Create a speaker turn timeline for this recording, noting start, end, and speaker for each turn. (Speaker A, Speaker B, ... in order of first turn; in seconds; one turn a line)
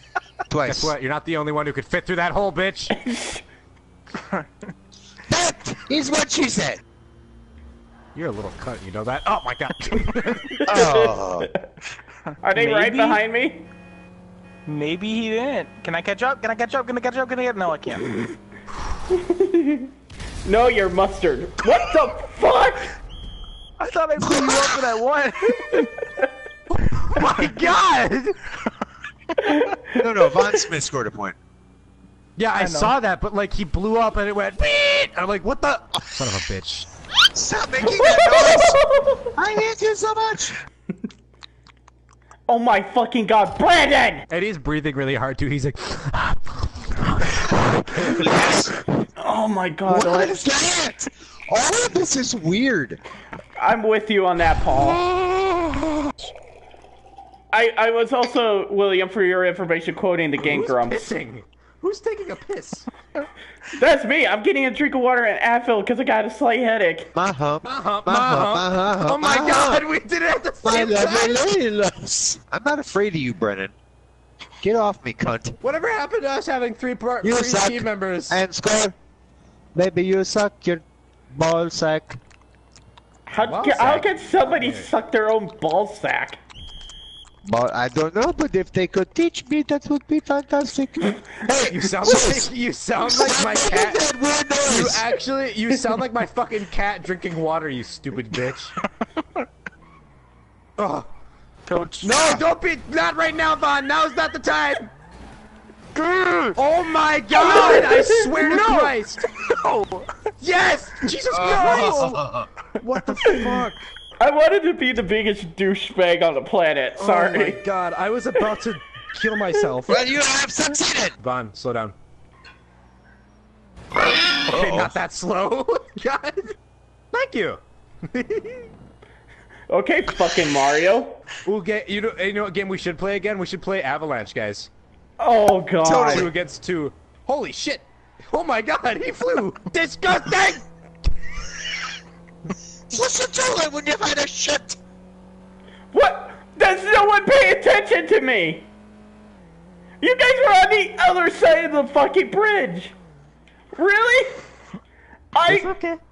Speaker A: 0.5-0.9
Speaker B: 0.7-2.9
Speaker C: 3.0-3.4
Speaker A: 5.3-6.8
Speaker B: 8.1-10.8
Speaker A: 10.7-11.5
Speaker C: 10.7-11.5
Speaker C: 12.4-13.7
Speaker D: 12.5-13.2
Speaker D: 14.7-18.1
Speaker C: 19.1-19.9
Speaker C: 20.4-22.9
Speaker D: 23.8-25.9
Speaker A: 24.2-24.8
Speaker B: 26.7-28.4
Speaker C: 29.4-30.0
Speaker A: 30.0-31.4
Speaker B: 32.4-36.9
Speaker D: 32.6-32.9
Speaker A: 37.3-38.8
Speaker C: 37.9-39.3
Speaker A: 39.4-40.6
Speaker C: 42.5-44.3
Speaker B: 44.3-48.3
Speaker A: 48.0-48.9
Speaker C: 49.2-50.4
Speaker A: 49.9-53.0
Speaker C: 53.6-55.0
Speaker B: 54.8-56.1
Speaker C: 57.5-61.1
Speaker B: 60.4-62.9
Speaker C: 63.8-67.1
Speaker A: 67.2-69.8
Speaker B: 67.6-71.4
Speaker A: 70.6-73.7
Speaker A: 74.6-75.6
Speaker B: 75.6-78.4
Speaker A: 77.2-79.0
Speaker A: 79.8-82.2
Speaker C: 83.3-86.4
Speaker B: 83.3-84.9
Speaker A: 87.5-92.5
Speaker B: 91.7-94.0
Speaker A: 93.0-95.0
Speaker B: 94.6-98.8
Speaker B: 100.8-101.1
Speaker D: 101.7-102.1
Speaker B: 102.0-104.9
Speaker D: 106.0-106.4
Speaker B: 106.5-109.2
Speaker C: 107.4-108.3
Speaker D: 108.4-110.1
Speaker B: 110.4-112.2
Speaker A: 111.3-112.5
Speaker D: 111.5-111.9
Speaker B: 112.8-113.9
Speaker C: 114.2-117.6
Speaker B: 117.0-120.0
Speaker A: 119.9-121.2
Speaker B: 121.2-122.0
Speaker A: 124.1-124.9
Speaker B: 124.5-126.5
Speaker B: 127.1-128.7
Speaker C: 129.7-131.2
Speaker B: 131.4-134.7
Speaker C: 135.2-136.3
Speaker A: 135.8-136.3
Speaker B: 136.1-140.7
Speaker A: 142.9-144.8
Speaker C: 145.9-148.7
Speaker C: 150.0-152.9
Speaker C: 153.8-154.4
Speaker C: 155.3-155.7
Speaker B: 155.5-156.0